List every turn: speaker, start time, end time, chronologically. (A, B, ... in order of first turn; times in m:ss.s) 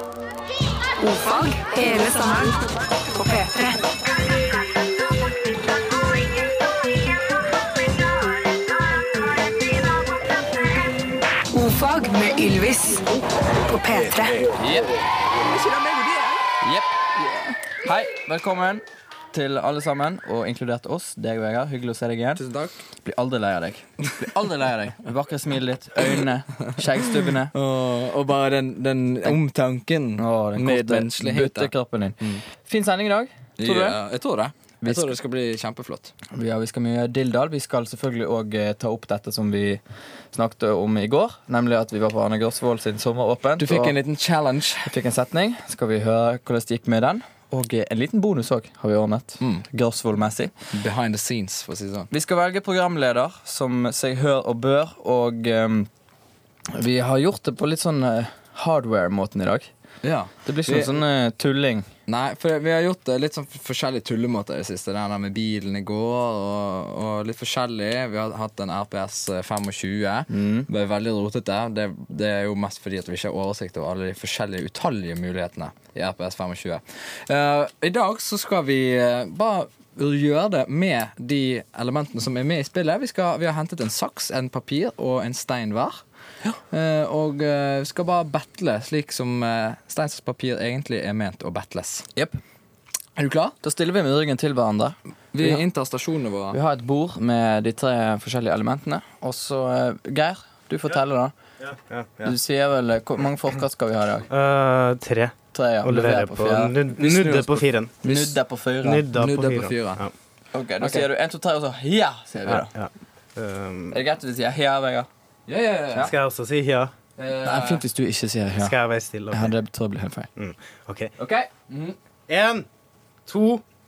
0:01.0-0:02.6 A
0:03.1-0:03.8 A
0:11.5-0:13.2 A
0:13.7-0:14.5 A
0:14.5-0:14.9 B
0:15.5-0:16.4 C
0:16.6-0:16.9 B
0:17.8-0:22.4 B
0:22.4-0:22.7 C
0:23.0-0:27.5 B
0:27.5-0:32.4 C
0:30.2-0:34.0 B
0:33.6-0:36.1 C
0:34.8-0:35.1 B
0:36.3-0:44.0 B
0:43.6-0:44.9 C
0:44.8-0:50.5 B
0:50.7-0:52.1 C
0:52.1-0:55.9 B
0:56.7-0:59.7 B
1:00.0-1:01.0 C
1:00.4-1:01.9 B
1:02.1-1:26.0 C
1:10.3-1:10.7 B
1:26.7-1:32.1 C
1:32.1-1:32.4 B
1:33.2-1:33.5 C
1:33.6-1:35.6 B
1:35.3-1:36.6 C
1:36.5-1:41.4 B
1:41.6-1:42.3 D
1:42.2-1:44.3 B
1:44.3-1:47.9 D
1:45.5-1:46.7 B
1:47.0-1:48.4 C
1:48.0-1:49.1 B
1:48.8-1:50.1 D
1:49.1-1:50.0 C
1:50.5-1:52.7 B
1:50.8-1:51.0 C
1:52.5-1:53.9 D
1:53.9-1:55.1 B
1:55.5-1:56.1 C
1:56.0-1:56.9 D
1:57.2-1:57.8 C
1:57.4-1:58.7 B
1:58.6-1:59.5 D
1:59.3-2:00.3 B
2:00.4-2:01.1 D
2:01.2-2:01.5 B
2:01.7-2:01.9 C
2:02.3-2:02.6 D
2:03.2-2:03.6 D